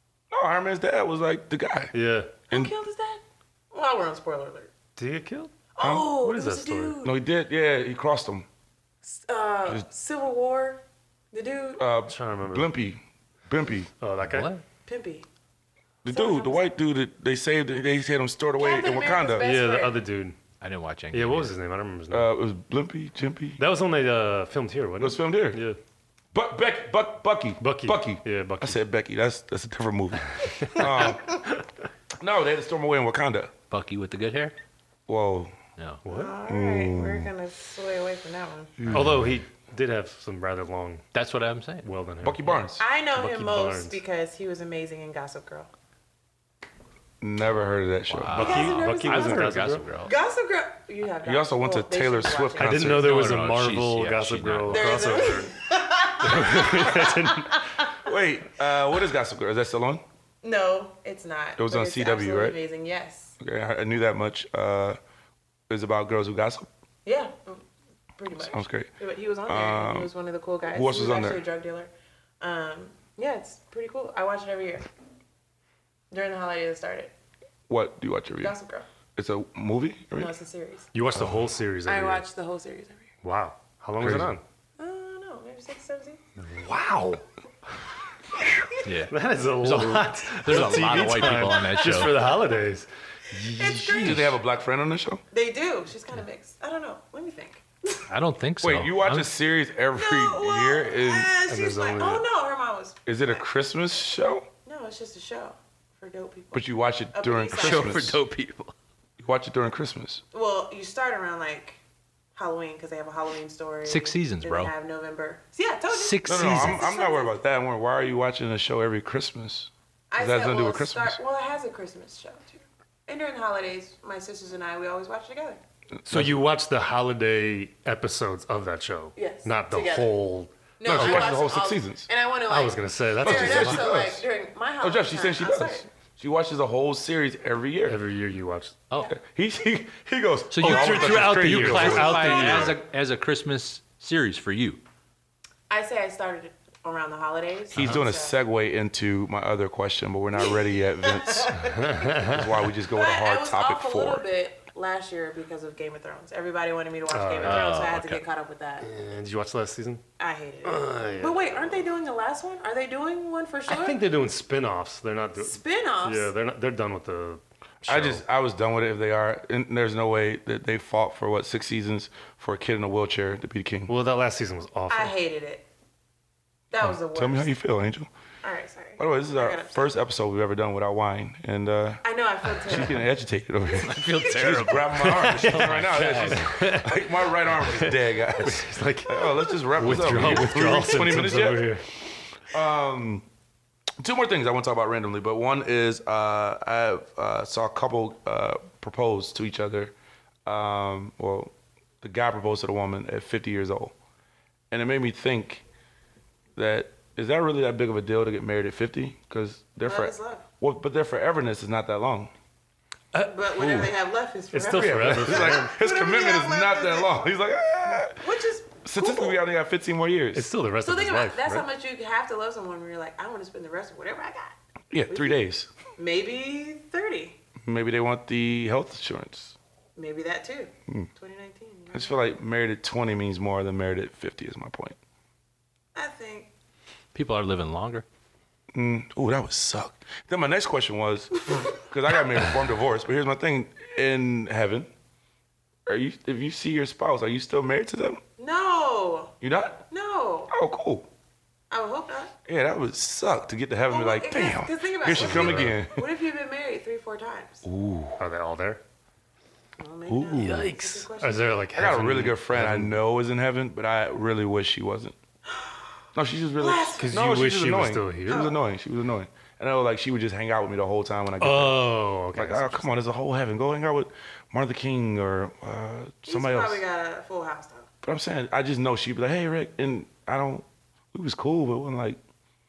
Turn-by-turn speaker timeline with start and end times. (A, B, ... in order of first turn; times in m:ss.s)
0:00.3-0:01.9 A
0:01.9-0:02.3 B
0:02.5-0:04.7 C
0:05.0-0:07.0 B
0:05.8-0:07.2 C
0:05.8-0:06.1 A
0:07.0-0:08.5 A
0:09.0-0:11.8 C
0:11.8-0:13.9 A
0:12.1-0:12.7 B
0:14.0-0:14.6 B
0:14.2-0:14.5 D
0:14.9-0:15.3 C
0:16.0-0:19.5 A
0:16.1-0:16.7 C
0:18.6-0:20.0 C
0:19.4-0:20.4 B
0:20.6-0:21.5 D
0:21.1-0:22.3 B
0:22.1-0:23.6 A
0:23.6-0:25.8 B
0:25.0-0:25.6 A
0:26.3-0:31.4 A
0:27.6-0:28.8 B
0:30.6-0:30.9 B
0:32.2-0:33.5 A
0:33.7-0:34.6 D
0:35.1-0:35.5 A
0:36.0-0:36.4 B
0:36.1-0:38.7 C
0:36.5-0:37.3 A
0:38.8-0:39.1 A
0:38.9-0:41.1 B
0:41.1-0:41.9 D
0:41.8-0:42.6 B
0:42.2-0:42.8 A
0:42.8-0:45.7 C
0:43.2-0:44.0 B
0:47.2-0:48.7 A
0:48.1-0:50.2 D
0:48.3-0:49.9 B
0:48.4-0:52.8 C
0:51.2-0:53.3 A
0:52.6-0:55.6 B
0:52.8-0:55.3 D
0:54.7-0:58.0 C
0:56.2-0:57.6 B
0:58.0-1:00.0 A
1:00.4-1:03.4 C
1:01.6-1:02.6 A
1:03.4-1:05.0 A
1:05.7-1:06.7 A
1:07.0-1:07.6 C
1:08.2-1:14.9 C
1:08.4-1:08.9 A
1:09.5-1:10.1 A
1:10.7-1:11.4 A
1:16.1-1:17.1 C
1:17.7-1:18.6 A
1:18.4-1:18.9 C
1:19.2-1:20.3 A
1:20.2-1:20.9 C
1:20.9-1:22.2 B
1:21.2-1:21.4 A
1:21.9-1:23.1 C
1:23.2-1:24.4 B
1:24.0-1:24.4 A
1:24.8-1:26.2 C
1:26.4-1:27.2 B
1:28.8-1:32.3 D
1:29.1-1:34.3 B
1:31.4-1:32.1 C
1:33.4-1:34.4 C
1:34.0-1:35.2 A
1:35.3-1:38.0 C
1:38.1-1:39.3 D
1:38.6-1:41.3 A
1:40.0-1:43.4 C
1:41.5-1:42.2 B
1:43.1-1:44.5 A
1:44.6-1:48.0 C
1:46.5-1:48.2 A
1:47.5-1:48.7 D
1:49.2-1:50.2 A
1:50.3-1:51.8 C
1:52.4-1:57.4 C
1:53.9-1:54.7 D
1:55.9-1:56.8 D
1:56.2-2:01.2 A
2:00.1-2:05.6 C
2:06.0-2:06.4 A
2:06.1-2:11.3 B
2:09.2-2:10.2 C
2:10.8-2:15.9 C
2:10.8-2:12.1 A
2:12.5-2:14.0 B
2:13.2-2:14.2 A
2:14.8-2:18.0 A
2:17.9-2:18.8 B
2:19.0-2:22.6 A
2:20.5-2:24.8 D
2:20.6-2:22.8 B
2:22.1-2:22.8 C
2:25.7-2:28.4 C
2:27.7-2:34.2 A
2:30.4-2:32.3 C
2:31.8-2:32.4 B
2:32.9-2:38.9 C
2:37.1-2:37.8 B
2:37.4-2:38.2 D
2:38.8-2:40.0 B
2:40.2-2:44.0 C
2:40.6-2:41.8 B
2:43.7-2:48.2 B
2:45.4-2:46.3 C
2:47.9-2:53.9 A
2:53.9-2:55.1 B
2:54.9-2:55.7 C
2:56.7-2:57.5 C
2:56.9-2:58.1 A
2:58.4-3:00.0 C
2:59.0-3:02.0 A
3:02.0-3:03.0 C
3:02.6-3:11.7 A
3:03.8-3:06.7 D
3:05.1-3:11.9 B
3:12.5-3:13.3 A
3:14.0-3:19.9 A
3:20.4-3:23.9 A
3:24.7-3:25.6 A
3:26.6-3:32.3 A
3:29.8-3:30.4 C
3:33.1-3:33.9 B
3:33.2-3:37.3 C
3:34.5-3:35.7 B
3:34.7-3:38.2 A
3:38.2-3:39.4 C
3:38.8-3:40.5 A
3:40.3-3:41.7 B
3:40.8-3:44.5 C
3:44.9-3:45.7 A
3:45.1-3:45.4 C
3:46.0-3:47.4 C
3:47.6-3:49.6 A
3:50.0-3:52.2 C
3:51.9-3:55.0 A
3:56.0-3:56.5 C
3:57.1-3:58.0 D
3:58.7-4:04.9 A
4:05.9-4:08.2 A
4:08.4-4:10.5 C
4:09.4-4:09.8 A
4:10.5-4:11.1 A
4:11.7-4:12.3 C
4:12.5-4:16.0 A
4:13.9-4:17.6 C
4:15.1-4:15.8 B
4:17.6-4:18.2 A
4:18.2-4:18.8 B
4:19.8-4:21.5 C
4:20.1-4:20.8 A
4:20.4-4:23.0 B
4:21.8-4:25.2 A
4:25.5-4:25.8 C
4:26.2-4:36.8 A
4:26.6-4:27.1 C
4:27.0-4:28.5 B
4:28.3-4:28.6 C
4:31.4-4:32.9 B
4:36.3-4:37.9 C
4:38.0-4:42.2 A